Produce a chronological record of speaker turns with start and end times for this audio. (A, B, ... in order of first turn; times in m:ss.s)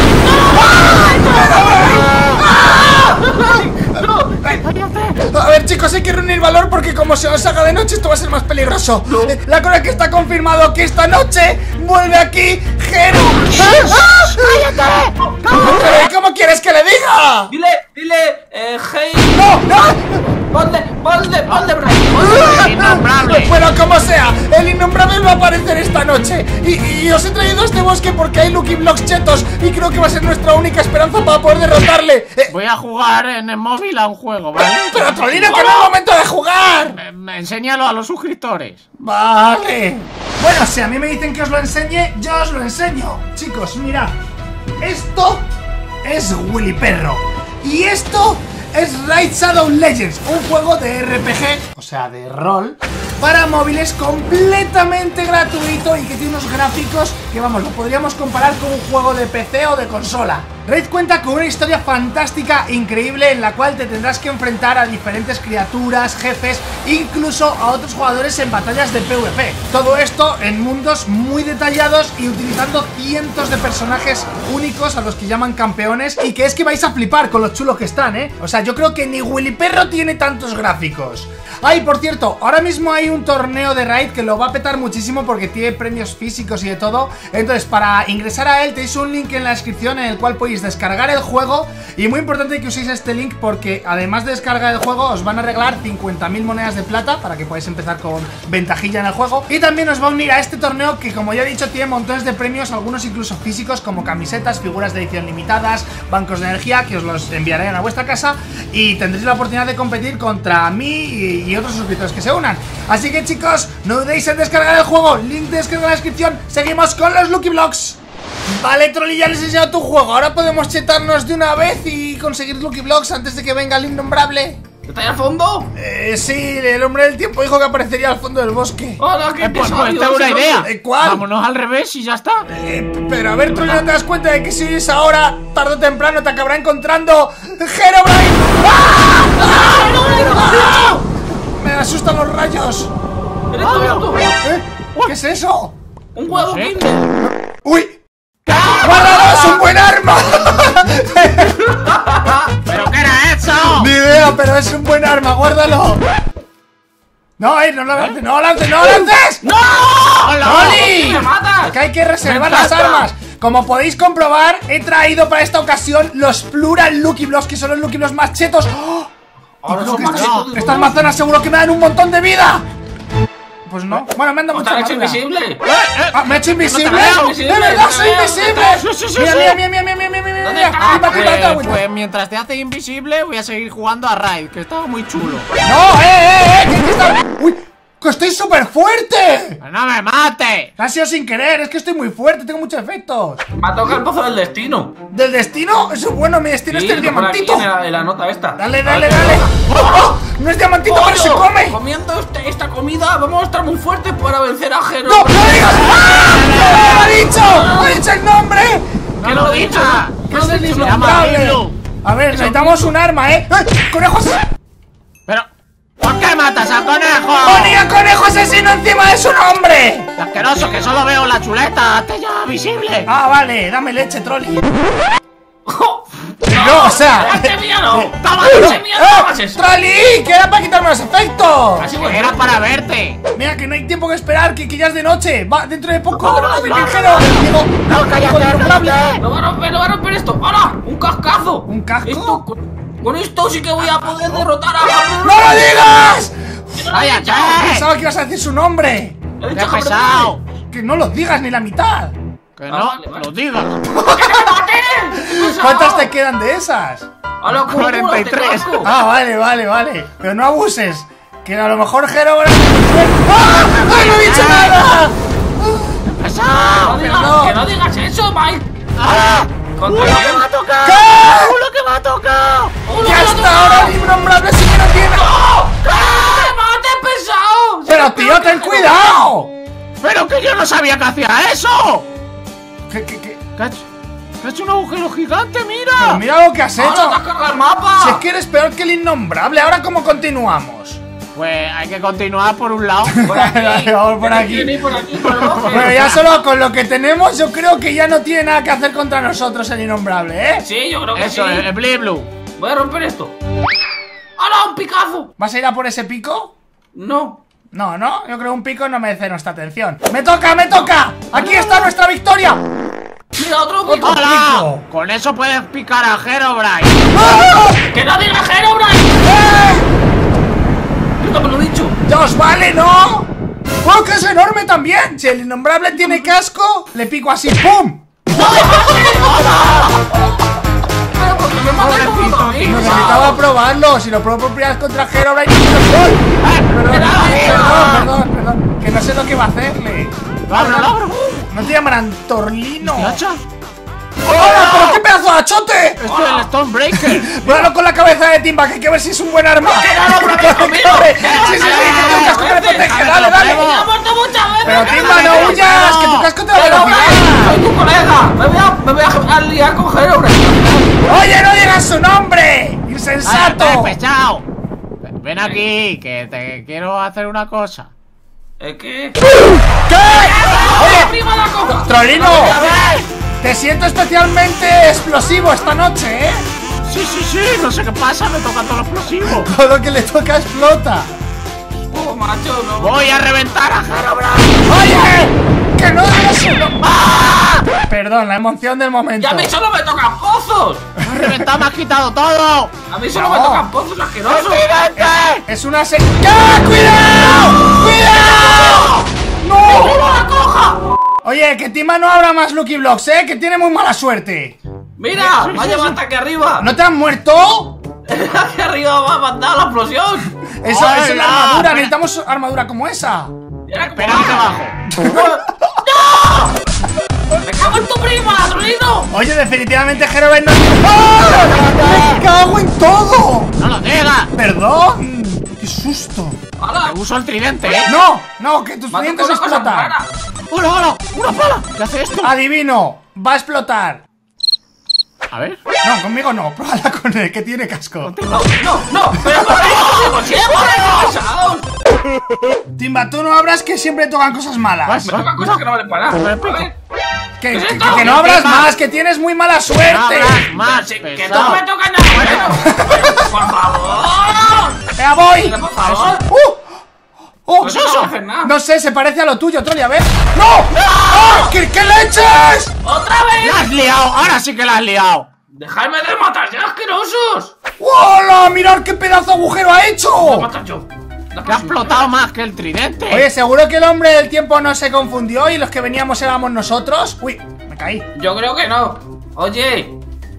0:00.2-0:04.6 A
0:00.6-0:03.3 B
0:04.6-0:05.2 C
0:05.2-0:14.8 B
0:09.0-0:09.4 A
0:13.5-0:16.0 C
0:15.5-0:17.5 B
0:17.5-0:20.0 A
0:19.3-0:20.2 B
0:20.5-0:22.5 A
0:22.1-0:32.5 B
0:22.2-0:23.5 C
0:32.5-0:35.5 C
0:34.9-0:37.0 B
0:35.4-0:35.9 A
0:36.9-0:38.8 C
0:39.0-0:44.2 B
0:44.8-0:45.4 B
0:46.0-2:04.6 B
2:04.8-2:05.7 A
2:05.8-2:09.0 B
2:09.0-2:10.7 A
2:09.4-2:12.5 C
2:10.6-2:11.2 B
2:12.5-2:21.0 B
2:13.5-2:13.8 C
2:19.4-2:21.0 A
2:21.6-2:22.9 B
2:23.5-2:24.3 A
2:23.6-2:24.2 C
2:24.4-2:25.8 B
2:26.1-2:27.1 A
2:26.3-2:26.7 C
2:27.5-2:28.0 B
2:28.5-2:29.3 C
2:28.5-2:29.4 A
2:28.8-2:31.6 B
2:31.6-2:32.5 A
2:32.6-2:33.9 C
2:33.7-2:36.0 B
2:37.4-2:39.4 B
2:39.0-2:41.8 A
2:40.2-2:40.9 C
2:40.4-2:49.1 B
2:42.2-2:43.0 C
2:49.6-2:51.1 A
2:49.7-2:52.6 B
2:49.8-2:50.6 C
2:53.6-2:55.2 B
2:54.5-2:55.6 A
2:55.6-2:57.3 C
2:56.1-3:01.8 B
2:56.7-2:58.8 A
2:58.7-2:59.6 C
3:00.4-3:01.5 A
3:00.8-3:05.5 C
3:05.6-3:09.6 B
3:09.6-3:10.7 C
3:10.8-3:13.4 B
3:13.6-3:15.0 A
3:15.1-3:17.7 B
3:16.7-3:20.0 A
3:18.6-3:21.8 B
3:20.8-3:25.5 A
3:25.0-3:28.8 B
3:25.9-3:27.1 C
3:27.4-3:28.0 A
3:29.2-3:31.8 C
3:29.2-3:31.2 A
3:30.3-3:34.4 B
3:32.3-3:32.9 A
3:36.0-3:37.8 C
3:37.4-3:40.1 B
3:40.2-3:43.1 C
3:40.4-3:40.8 A
3:43.0-3:44.6 B
3:45.6-3:49.6 A
3:46.5-3:47.5 B
3:48.2-3:48.8 C
3:48.9-3:51.9 B
3:51.8-3:52.4 A
3:52.0-3:53.2 C
3:53.3-3:59.1 B
3:56.1-3:56.8 A
3:56.2-3:59.2 C
3:59.2-4:05.9 A
4:01.7-4:02.4 B
4:03.8-4:04.5 C
4:05.2-4:06.4 B
4:06.8-4:07.6 A
4:06.9-4:07.8 C
4:07.5-4:09.2 B
4:09.4-4:10.3 A
4:09.5-4:10.4 C
4:10.7-4:12.1 B
4:12.6-4:13.8 C
4:12.7-4:13.3 A
4:13.9-4:14.6 B
4:14.0-4:16.1 A
4:15.2-4:17.1 B
4:17.4-4:18.9 A
4:17.6-4:18.8 C
4:18.8-4:26.0 B
4:23.5-4:24.8 C
4:26.0-4:27.0 C
4:26.8-4:28.7 A
4:27.0-4:27.6 B
4:29.0-4:32.7 C
4:29.8-4:30.5 A
4:30.8-4:31.6 B
4:32.8-4:33.9 A
4:33.0-4:35.3 B
4:35.1-4:39.1 A
4:35.9-4:36.2 C
4:37.9-4:39.5 B
4:40.0-4:42.0 C
4:42.9-4:43.4 B
4:43.6-4:43.8 C
4:44.4-4:46.2 C
4:46.0-4:47.2 B
4:46.8-4:48.2 A
4:48.0-4:51.0 B
4:51.3-4:53.2 C
4:53.0-4:54.8 B
4:53.2-4:56.0 A
4:55.2-4:56.2 C
4:55.7-5:00.6 B
5:00.6-5:01.7 A
5:01.1-5:02.3 C
5:02.6-5:03.3 A
5:04.4-5:05.3 A
5:05.4-5:06.5 B
5:06.9-5:07.4 A
5:07.7-5:12.6 B
5:13.4-5:14.2 A
5:13.8-5:14.8 B
5:14.0-5:17.1 C
5:17.1-5:17.8 B
5:17.9-5:19.2 A
5:19.2-5:19.9 B
5:21.2-5:22.0 A
5:22.0-5:23.3 B
5:23.8-5:28.2 B
5:28.3-5:29.9 A
5:28.3-5:29.9 C
5:31.1-5:33.4 A
5:31.8-5:33.3 C
5:32.6-5:43.2 B
5:36.4-5:38.0 C
5:36.9-5:37.9 A
5:40.5-5:41.2 C
5:42.8-5:43.4 C
5:44.2-5:46.0 B
5:44.2-5:45.0 C
5:46.0-5:47.7 C
5:46.1-5:46.5 A
5:47.0-5:53.6 B
5:49.6-5:53.0 A
5:51.2-5:53.9 C
5:53.5-5:55.6 A
5:54.6-5:57.6 B
5:54.7-5:56.3 C
5:56.5-6:00.8 A
6:01.0-6:03.9 B
6:03.2-6:04.4 C
6:05.0-6:07.9 C
6:08.6-6:09.2 A
6:09.9-6:11.1 B
6:10.0-6:12.9 A
6:11.7-6:12.6 B
6:12.5-6:12.9 C
6:13.4-6:16.4 B
6:16.8-6:19.5 C
6:19.2-6:21.1 B
6:21.9-6:23.1 A
6:22.8-6:24.6 C
6:24.6-6:26.8 B
6:26.8-6:27.6 C
6:27.9-6:29.5 B
6:29.2-6:30.9 A
6:31.0-6:32.7 C
6:31.1-6:31.4 B
6:32.9-6:34.6 A
6:33.1-6:33.6 B
6:34.3-6:35.4 C
6:34.9-6:40.1 B
6:38.0-6:38.9 A
6:39.6-6:40.8 A
6:41.2-6:44.6 B
6:45.0-6:46.7 A
6:45.2-6:46.0 C
6:46.6-6:47.8 B
6:48.1-6:50.3 A
6:50.5-6:53.3 B
6:50.6-6:51.9 C
6:53.7-6:54.5 A
6:53.8-6:54.8 C
6:54.9-6:55.5 B
6:55.0-6:56.5 A
6:57.4-6:59.1 A
6:59.1-7:03.6 B
7:03.6-7:04.3 C
7:04.3-7:06.4 B
7:06.6-7:06.9 A
7:06.8-7:07.9 C
7:07.8-7:09.9 B
7:08.9-7:10.1 A
7:10.5-7:12.3 C
7:12.2-7:14.0 B
7:15.3-7:15.6 C
7:15.8-7:18.1 B
7:18.0-7:18.5 C
7:18.3-7:21.6 A
7:19.2-7:19.6 B
7:19.8-7:21.0 C
7:22.8-7:25.0 B
7:24.9-7:25.6 C
7:25.1-7:26.7 A
7:26.1-7:26.6 C
7:27.4-7:30.4 B
7:27.5-7:28.7 A
7:29.8-7:32.6 C
7:30.5-7:34.8 A
7:32.6-7:33.2 B
7:35.0-7:35.6 B
7:35.4-7:36.2 A
7:35.8-7:36.2 C
7:36.3-7:36.6 B
7:37.5-7:37.9 B
7:37.6-7:38.5 A
7:37.6-7:38.1 C
7:38.4-7:42.7 B
7:40.8-7:41.5 A
7:42.8-7:43.7 A
7:43.4-7:45.3 C
7:45.5-7:47.5 A
7:47.8-7:50.5 B
7:50.2-7:52.1 A
7:51.4-7:53.3 C
7:53.1-7:58.0 B
7:58.1-8:00.0 A